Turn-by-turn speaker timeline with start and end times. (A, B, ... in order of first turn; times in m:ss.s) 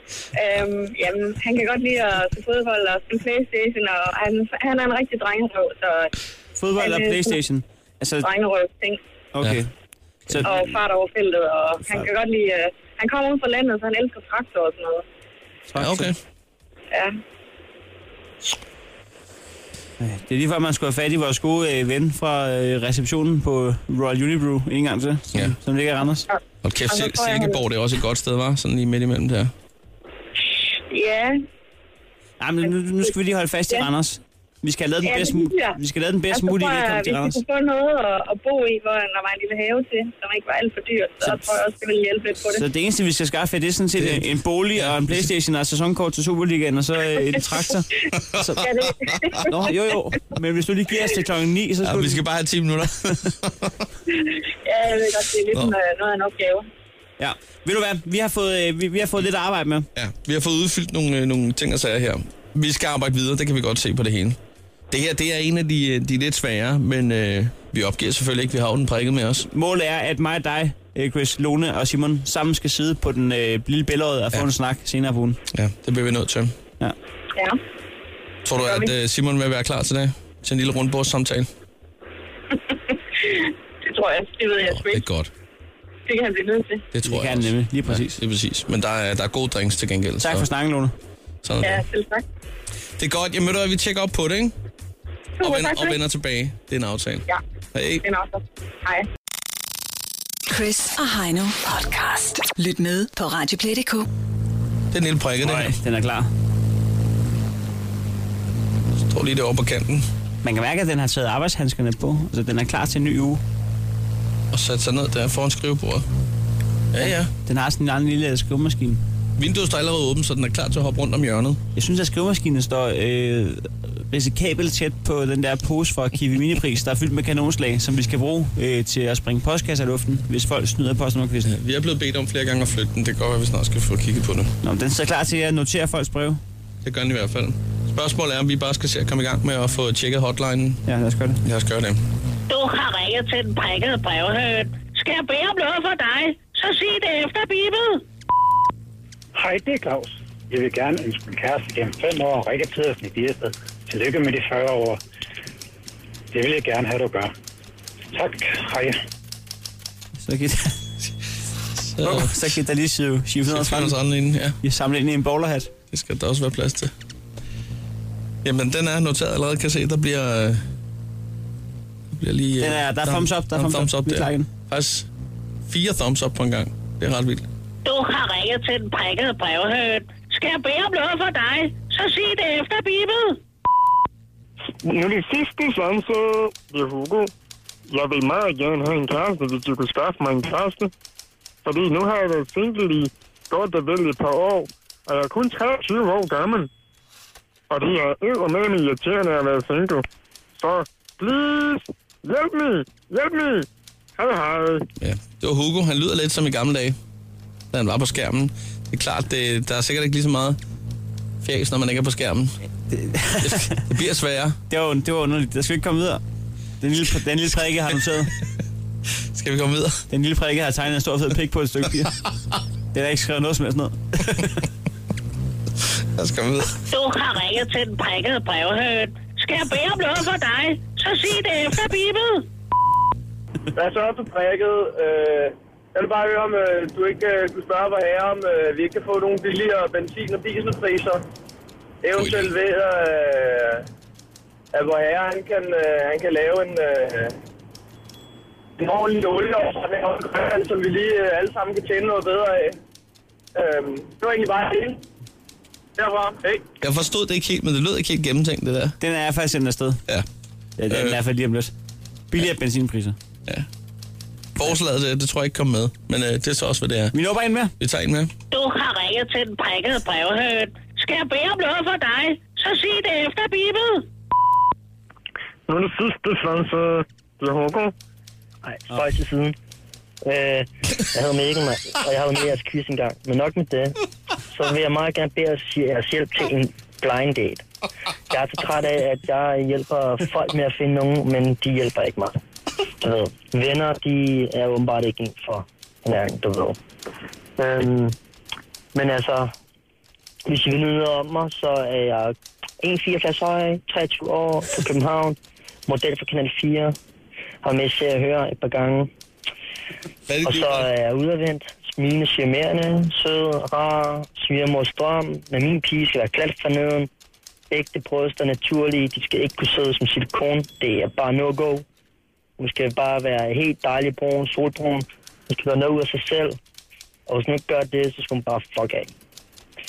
0:00.3-0:06.1 A
0:06.6-0:08.3 B
0:06.8-0:07.4 A
0:08.2-0:09.0 A
0:09.3-0:09.7 B
0:10.4-0:15.0 A
0:15.7-0:16.1 B
0:15.8-0:16.2 C
0:20.0-0:26.3 B
0:26.3-0:27.6 A
0:26.6-0:29.5 C
0:30.9-0:31.4 A
0:32.4-0:37.4 B
0:35.0-0:35.8 A
0:36.3-0:42.6 A
0:42.5-0:48.6 B
0:44.0-0:45.3 C
0:48.6-0:49.6 A
0:49.4-0:52.2 B
0:51.8-0:53.8 C
0:54.6-0:56.7 A
0:57.2-0:59.9 B
1:00.0-1:04.4 C
1:04.9-1:09.4 C
1:09.5-1:15.4 B
1:15.5-1:16.5 C
1:18.4-1:21.5 C
1:18.6-1:18.9 A
1:23.2-1:25.0 A
1:24.7-1:25.3 C
1:26.1-1:26.9 A
1:26.9-1:30.5 C
1:27.0-1:28.2 B
1:30.2-1:30.9 B
1:31.4-1:31.8 C
1:31.6-1:32.2 A
1:33.0-1:34.6 C
1:35.4-1:36.0 A
1:35.4-1:38.0 C
1:38.0-1:39.1 A
1:40.5-1:44.1 D
1:44.9-1:45.7 C
1:45.4-1:46.3 B
1:49.0-1:50.1 C
1:50.4-1:53.4 B
1:54.5-1:56.0 C
1:56.9-1:57.3 C
1:57.0-1:59.0 B
1:59.4-2:01.6 C
2:01.8-2:11.6 B
2:11.5-2:14.5 C
2:14.6-2:16.4 B
2:16.8-2:20.8 C
2:20.9-2:21.4 B
2:21.4-2:22.0 C
2:22.5-2:28.0 E
2:29.4-2:35.0 F
2:36.3-2:37.3 F
2:38.1-2:39.0 F
2:40.2-2:40.8 B
2:41.8-2:42.4 C
2:42.0-2:44.0 B
2:43.5-2:44.6 C
2:44.6-2:45.7 B
2:45.9-2:46.9 C
2:48.4-2:50.6 C
2:52.1-2:55.1 C
2:52.6-2:54.5 B
2:55.7-2:57.4 C
2:57.8-3:03.4 E
3:04.8-3:07.3 G
3:07.9-3:10.9 G
3:11.6-3:16.7 G
3:17.7-3:20.0 G
3:20.6-3:24.9 G
3:25.0-3:27.0 C
3:27.7-3:30.6 C
3:31.4-3:32.5 C
3:32.9-3:33.8 B
3:33.4-3:34.6 C
3:34.7-3:36.2 B
3:36.8-3:38.3 B
3:39.3-3:40.0 C
3:40.1-3:42.2 B
3:42.9-3:44.5 B
3:46.1-3:46.8 C
3:46.9-3:52.4 E
3:53.8-4:01.2 H
4:02.0-4:03.8 H
4:02.2-4:02.5 C
4:04.7-4:07.4 H
4:08.8-4:12.8 H
4:13.6-4:15.0 H
4:16.0-4:16.6 H
4:16.8-4:19.0 C
4:19.0-4:20.0 B
4:20.8-4:21.7 B
4:20.9-4:21.2 C
4:22.3-4:23.2 B
4:24.6-4:27.1 C
4:27.1-4:27.7 B
4:27.8-4:28.3 C
4:28.5-4:34.1 E
4:35.7-4:37.9 G
4:38.7-4:39.6 I
4:40.2-4:44.0 I
4:44.5-4:47.6 I
4:48.3-4:52.4 I
4:53.0-4:56.8 I
4:57.6-4:58.2 I
4:58.9-4:59.5 I
5:00.4-5:07.0 I
5:07.6-5:09.1 I
5:10.3-5:10.9 C
5:10.4-5:17.1 I
5:17.7-5:21.8 I
5:22.6-5:26.6 I
5:27.3-5:29.1 I